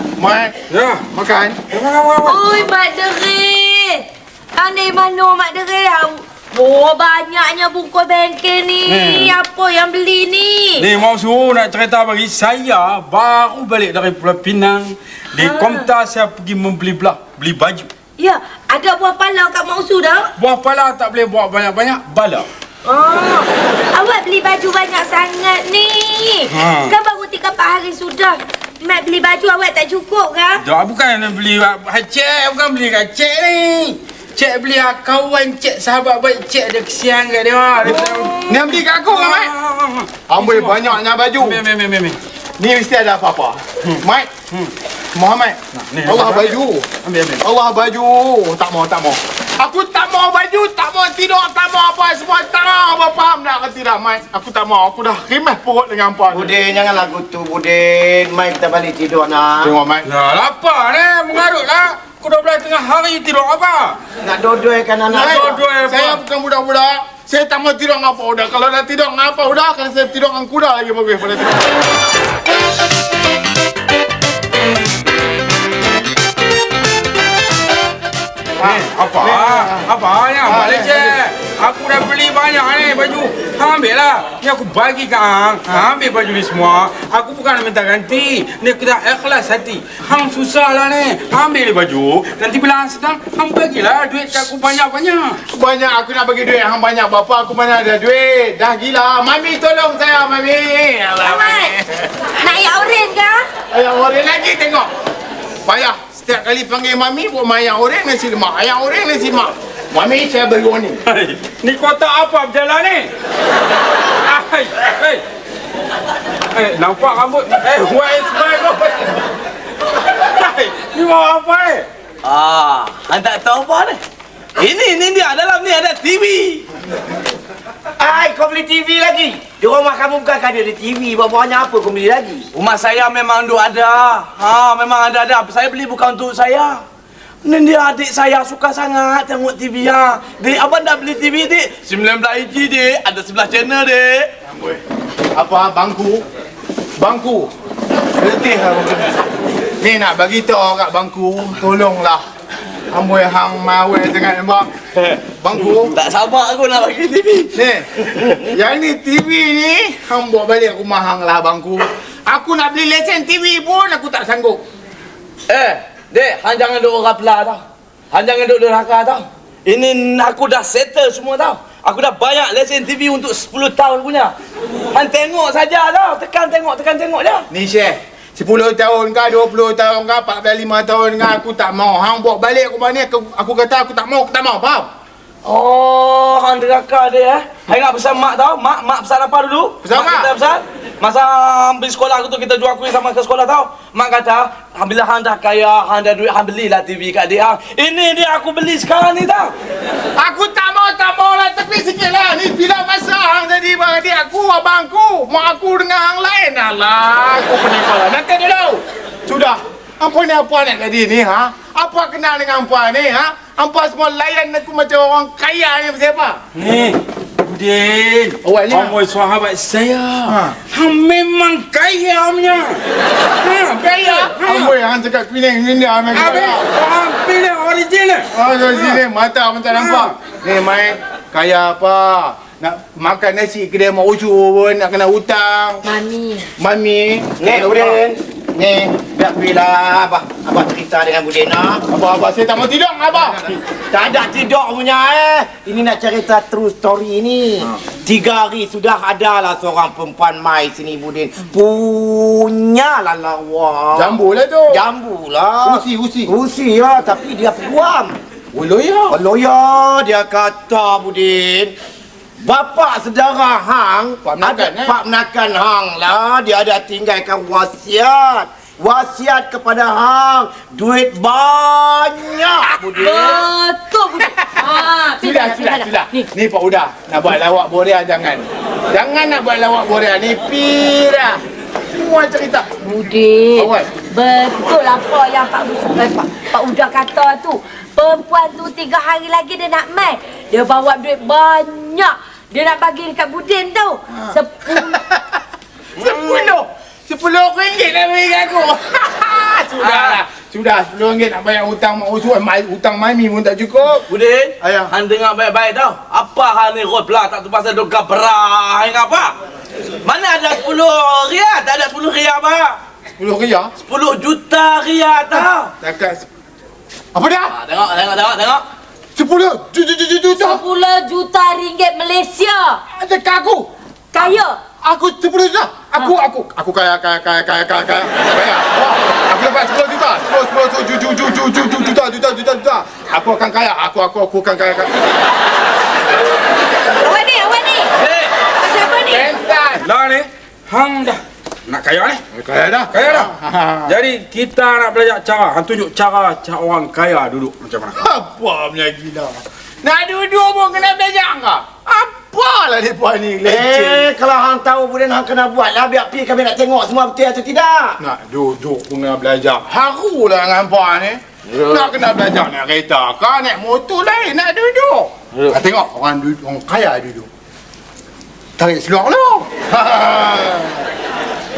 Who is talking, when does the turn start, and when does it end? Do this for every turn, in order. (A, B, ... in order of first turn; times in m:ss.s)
0:00.2-0:00.6 A
0:00.7-0:01.0 B
0:01.1-0:01.6 A
0:01.7-0:02.6 B
0:02.2-0:04.0 C
0:04.6-0:10.9 C
0:08.8-0:09.3 B
0:10.8-0:17.9 B
0:15.4-0:15.9 C
0:18.2-0:20.3 C
0:20.4-0:22.5 B
0:22.9-0:30.6 C
0:26.5-0:26.9 B
0:30.6-0:40.8 B
0:37.8-0:38.5 C
0:38.4-0:39.5 A
0:40.3-0:41.6 A
0:41.4-0:42.2 B
0:42.6-0:44.3 A
0:45.2-0:46.9 A
0:45.8-0:47.4 B
0:47.4-0:56.5 A
0:56.3-0:59.8 D
0:59.6-1:00.0 A
1:00.0-1:04.0 B
1:04.2-1:05.6 D
1:05.1-1:11.7 A
1:05.3-1:06.2 B
1:18.6-1:19.9 A
1:18.6-1:35.4 B
1:20.4-1:21.1 A
1:35.5-1:42.0 A
1:41.2-1:41.8 C
1:42.4-1:43.4 C
1:43.7-1:44.9 A
1:45.7-1:51.0 A
1:51.1-1:53.1 B
1:54.3-1:55.2 B
1:56.5-1:59.2 B
2:00.4-2:01.9 B
2:02.2-2:04.0 E
2:04.6-2:06.6 E
2:08.0-2:12.5 D
2:12.5-2:16.8 E
2:17.4-2:24.3 E
2:24.5-2:24.8 A
2:25.4-2:26.2 A
2:27.0-2:27.5 A
2:28.2-2:29.2 A
2:29.8-2:32.2 A
2:32.9-2:34.7 A
2:35.0-2:37.6 E
2:35.4-2:35.9 A
2:37.5-2:44.6 A
2:45.5-2:54.3 E
2:54.9-2:57.5 E
2:57.5-3:04.9 A
3:05.4-3:19.5 E
3:09.8-3:10.3 A
3:20.2-3:36.4 A
3:36.6-3:42.8 B
3:38.4-3:39.0 A
3:40.3-3:40.6 A
3:43.4-3:44.8 B
3:43.8-3:46.6 A
3:46.1-3:48.3 B
3:48.3-3:55.8 A
3:49.7-3:50.1 B
3:55.9-3:56.5 C
3:56.6-3:58.0 A
3:57.4-4:01.8 D
4:01.9-4:03.4 A
4:03.9-4:14.2 D
4:14.0-4:14.8 A
4:14.7-4:18.2 D
4:15.6-4:16.3 A
4:18.5-4:19.2 A
4:19.1-4:21.7 D
4:22.4-4:33.4 D
4:24.2-4:25.0 A
4:33.0-4:36.2 C
4:34.6-4:41.4 A
4:41.9-4:42.8 A
4:42.8-4:55.0 C
4:43.6-4:43.9 A
4:54.2-4:55.4 A
4:56.0-5:04.1 A
4:59.8-5:00.2 E
5:04.1-5:09.4 E
5:04.6-5:04.9 A
5:10.0-5:12.8 E
5:13.2-5:13.7 A
5:13.8-5:15.7 E
5:15.8-5:16.3 A
5:17.1-5:17.5 A
5:17.5-5:18.6 E
5:19.2-5:20.6 A
5:20.3-5:22.8 C
5:23.0-5:23.7 A
5:24.1-5:24.6 C
5:24.8-5:34.9 A
5:37.0-5:37.9 C
5:38.0-5:38.3 E
5:38.6-5:39.3 C
5:39.1-5:39.8 A
5:39.8-5:42.2 B
5:42.3-5:44.0 A
5:42.9-5:43.3 B
5:43.9-5:48.0 B
5:48.0-5:54.1 A
5:53.4-5:58.0 D
5:58.0-6:07.3 A
6:01.5-6:01.9 E
6:08.6-6:10.8 A